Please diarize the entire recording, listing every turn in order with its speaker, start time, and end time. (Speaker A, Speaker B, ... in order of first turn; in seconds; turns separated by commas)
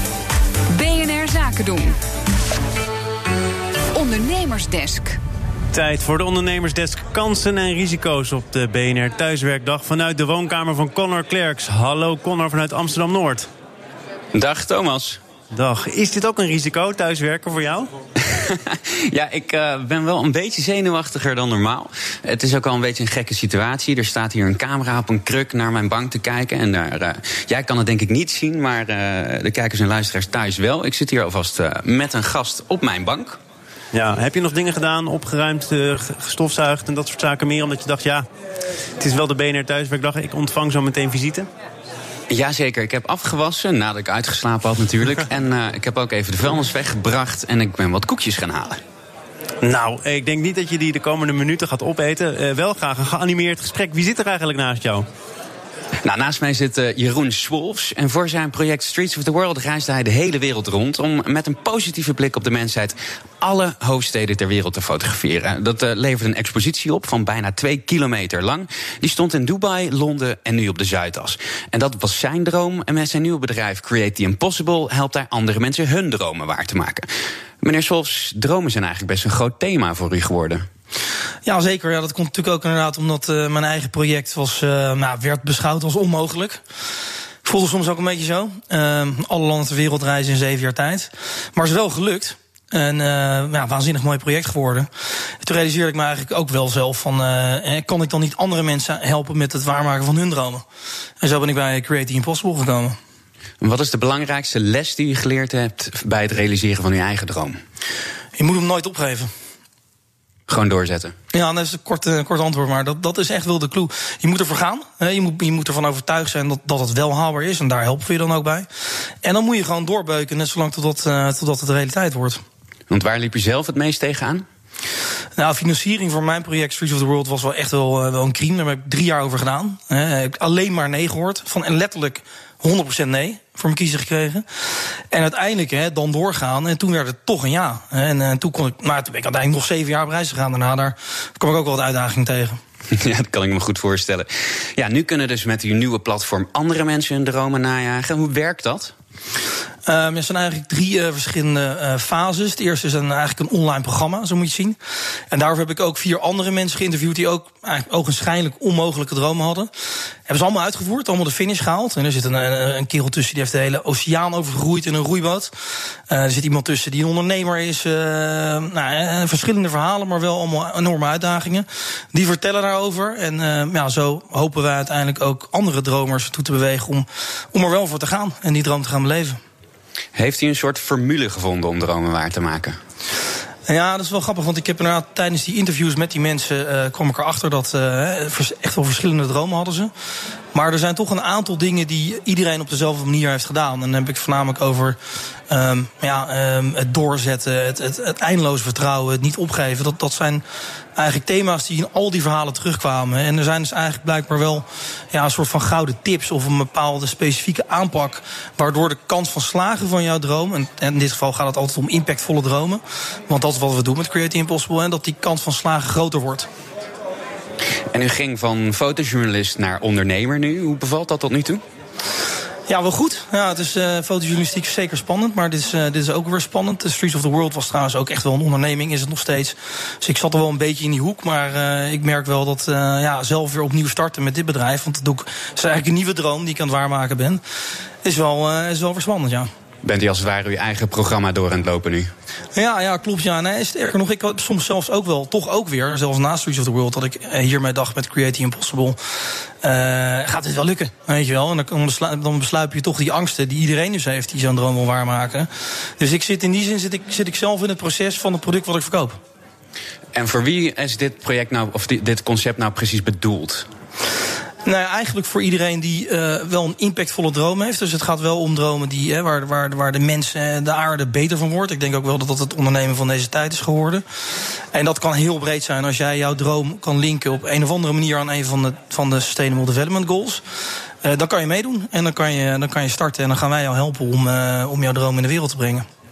Speaker A: 0.7-1.9, Speaker A: 3.9-5.2, Speaker B: 5.7-13.5, Speaker C: 14.3-15.2, Speaker B: 15.5-17.9, Speaker C: 18.2-33.4, Speaker B: 33.9-38.2, Speaker B: 39.0-41.5, Speaker C: 42.3-48.8, Speaker B: 49.6-55.0, Speaker C: 56.0-77.1, Speaker C: 77.6-80.6, Speaker D: 81.4-86.6, Speaker D: 87.4-94.9, Speaker D: 95.4-100.6, Speaker D: 101.2-103.0, Speaker C: 103.6-107.6, Speaker D: 108.3-109.3, Speaker C: 110.5-111.1, Speaker D: 111.3-118.7, Speaker D: 119.2-122.4, Speaker C: 122.9-124.4, Speaker D: 125.4-134.4, Speaker D: 135.1-142.6, Speaker C: 142.9-148.9, Speaker D: 149.8-154.8, Speaker D: 155.3-159.7, Speaker D: 160.3-165.5, Speaker D: 166.1-179.4, Speaker C: 180.1-182.8, Speaker D: 183.7-189.9, Speaker D: 190.5-195.0, Speaker D: 195.5-200.4, Speaker D: 200.9-216.5, Speaker C: 217.9-221.6, Speaker D: 222.7-237.4, Speaker D: 238.0-239.5, Speaker C: 239.8-242.1, Speaker D: 242.5-249.0, Speaker D: 249.6-259.1, Speaker C: 260.1-263.6, Speaker D: 264.6-274.0, Speaker D: 274.7-280.4, Speaker D: 281.0-285.8